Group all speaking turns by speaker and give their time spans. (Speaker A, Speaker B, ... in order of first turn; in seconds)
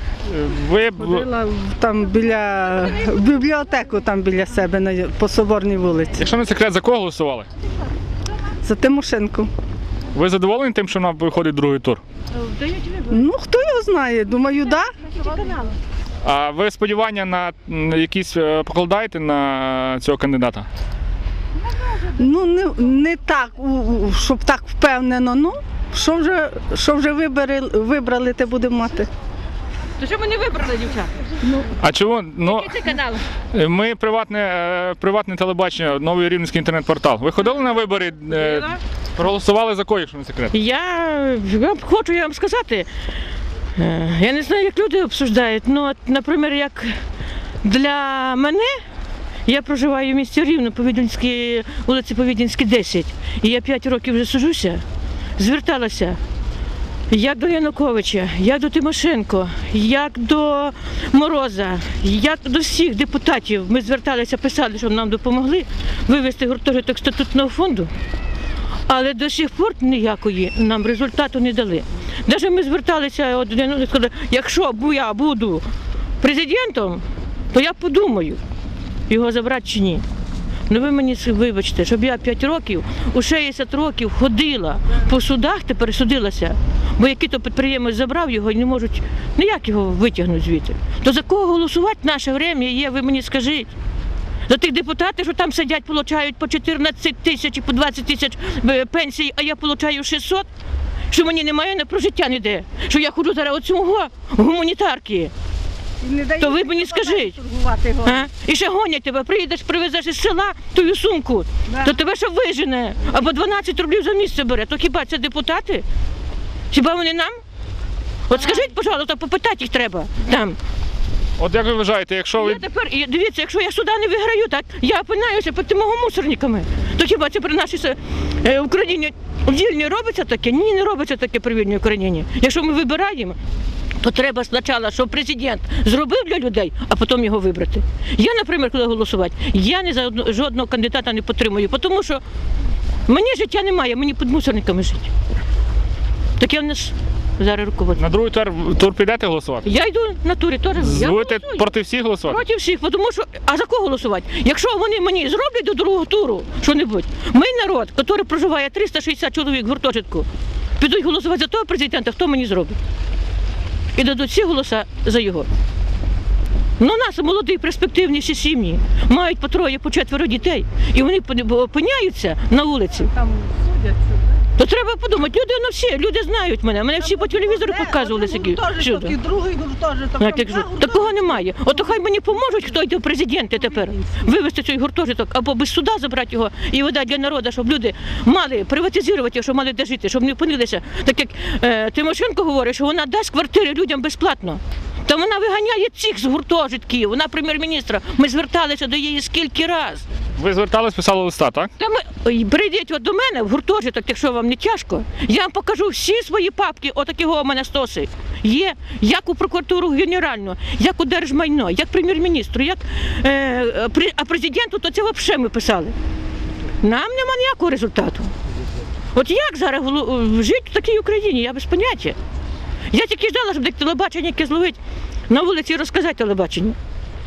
Speaker A: 0.3-1.3, 6.2-7.5, 10.1-12.0, 16.2-20.7, 31.8-32.8, 33.5-40.5, 121.4-122.6, 148.0-149.6, 150.8-152.4, 200.4-201.7
Speaker B: 1.0-6.2, 8.6-9.5, 13.1-14.9, 22.1-29.1, 106.0-108.2, 111.7-111.9, 173.1-174.2, 177.0-181.8, 183.7-184.2
Speaker C: 12.3-13.2, 15.1-15.7, 30.0-31.1, 32.4-33.2, 38.3-38.8, 40.5-42.9, 43.8-47.0, 47.6-48.8, 49.5-54.8, 55.4-56.2, 57.1-67.9, 68.9-75.7, 76.2-78.4, 79.1-80.0, 80.7-93.7, 94.5-100.5, 101.1-105.3, 106.4-107.3, 108.0-115.8, 116.7-117.3, 118.3-120.6, 122.3-133.4, 134.0-142.2, 143.1-145.1, 146.4-148.0, 149.6-151.7, 152.2-162.8, 163.9-165.5, 166.8-173.1, 174.6-179.2, 180.2-200.1, 201.8-215.9, 216.8-218.3, 219.1-222.2, 222.9-224.8, 225.3-226.8